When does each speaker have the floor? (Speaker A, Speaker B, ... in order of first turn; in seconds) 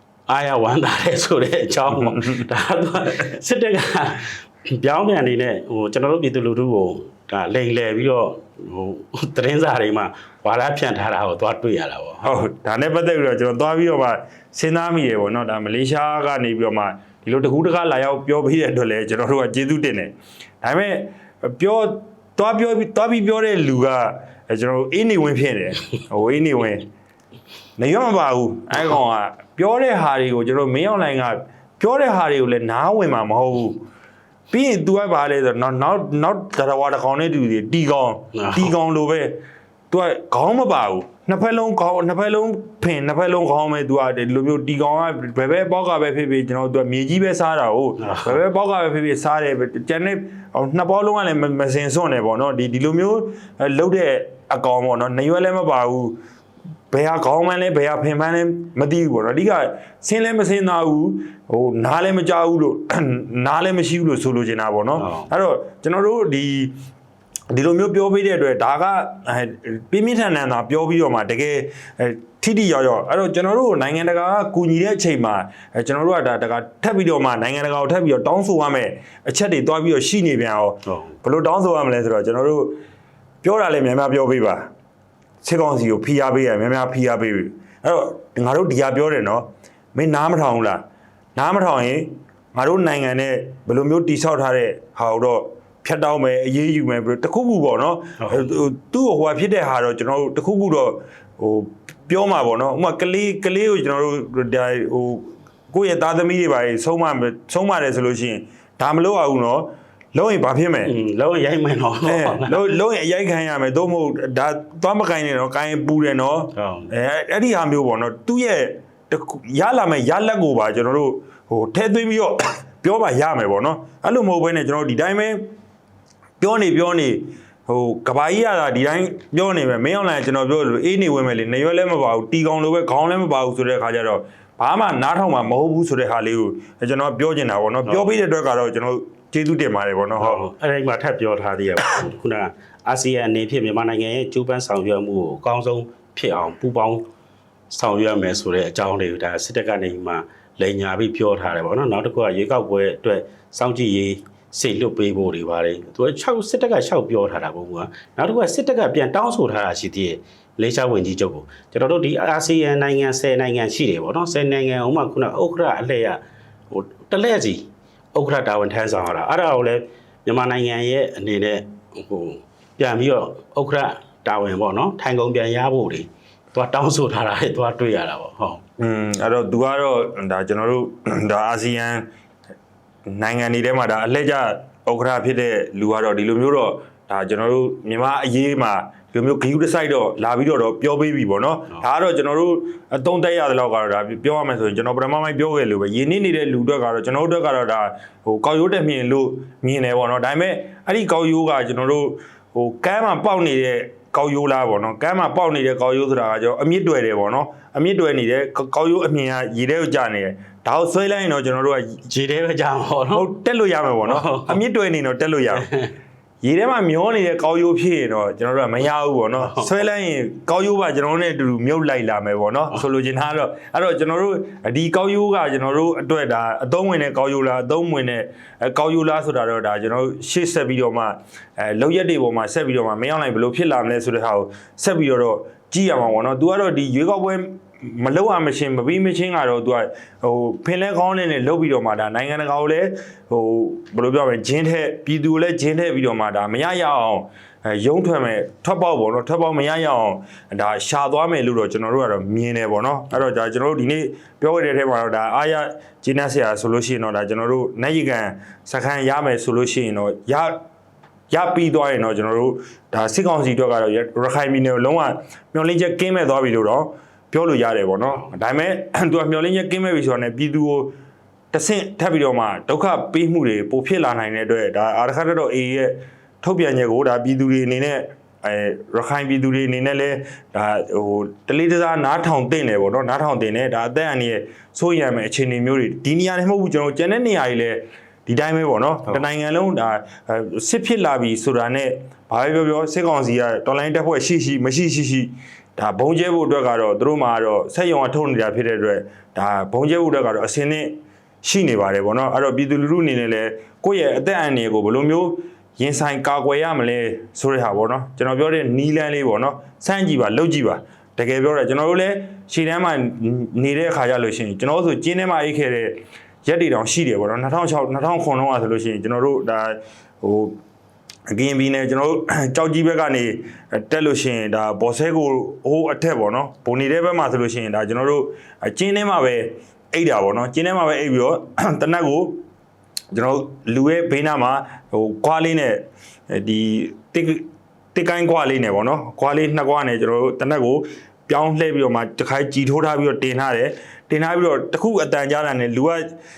Speaker A: 0.3-12.3, 38.3-38.7, 48.0-48.4, 65.0-65.3, 80.8-81.1, 98.2-98.5, 110.8-112.6, 116.5-116.9, 137.8-138.1, 140.2-147.0, 147.7-178.6, 212.1-213.2, 214.0-214.6, 215.6-215.9, 219.4-219.7
Speaker B: 1.9-2.5, 12.2-26.9, 27.8-33.8, 34.5-39.4, 39.9-56.2, 56.9-66.7, 67.5-82.8, 83.4-84.7, 85.4-90.8, 91.3-110.9, 112.0-125.5, 126.4-140.4, 178.8-182.0, 183.1-212.0, 213.1-215.7, 216.4-260.6, 261.3-270.9, 271.5-320.6, 321.3-332.4, 333.1-346.1